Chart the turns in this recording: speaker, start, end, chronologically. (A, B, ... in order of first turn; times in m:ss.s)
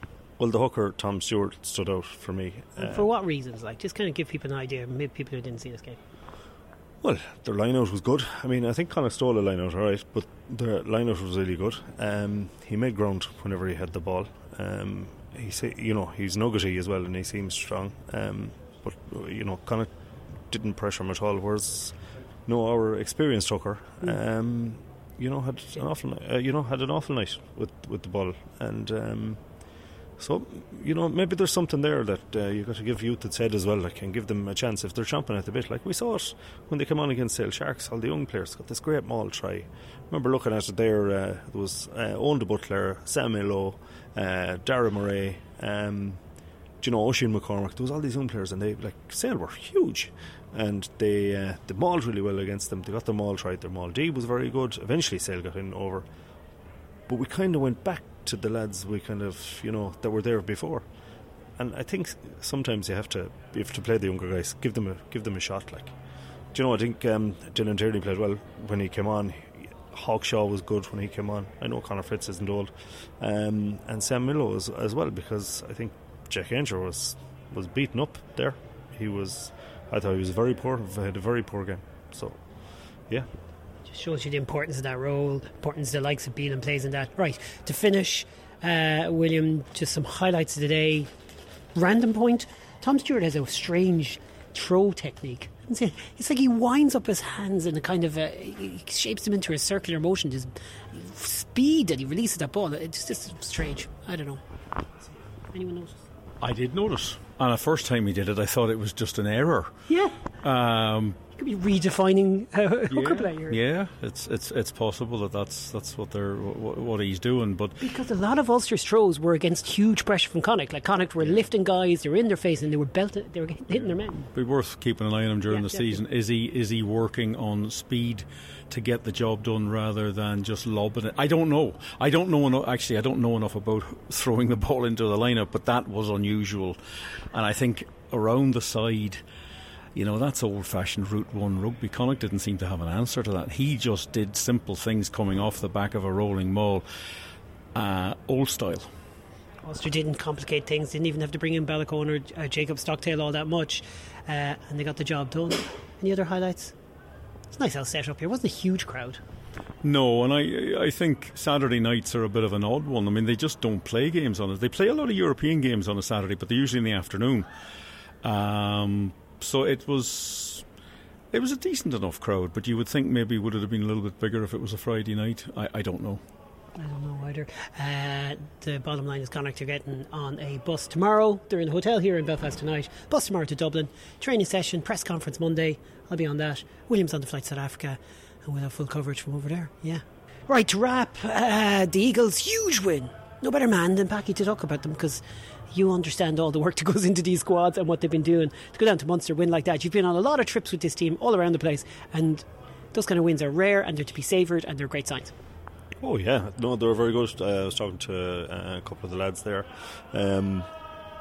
0:00.4-0:03.1 A
0:02.8-0:06.0 B
0:07.0-0:56.1 A
0:57.1-1:01.0 A
1:01.6-1:23.3 A
1:23.9-1:31.1 B
1:31.8-1:44.4 B
1:45.5-1:46.1 B
1:46.4-1:51.2 C
1:49.9-1:50.2 B
1:51.4-1:53.6 B
1:52.9-1:57.8 C
1:57.8-2:04.3 B
2:04.3-2:16.8 C
2:05.5-2:06.0 B
2:17.3-2:19.2 C
2:19.9-2:26.9 C
2:27.7-2:28.9 C
2:29.6-2:36.8 B
2:37.5-2:39.2 B
2:39.8-2:47.5 C
2:48.2-2:50.7 C
2:51.3-2:56.2 C
2:56.8-3:25.3 B
3:26.0-3:30.7 A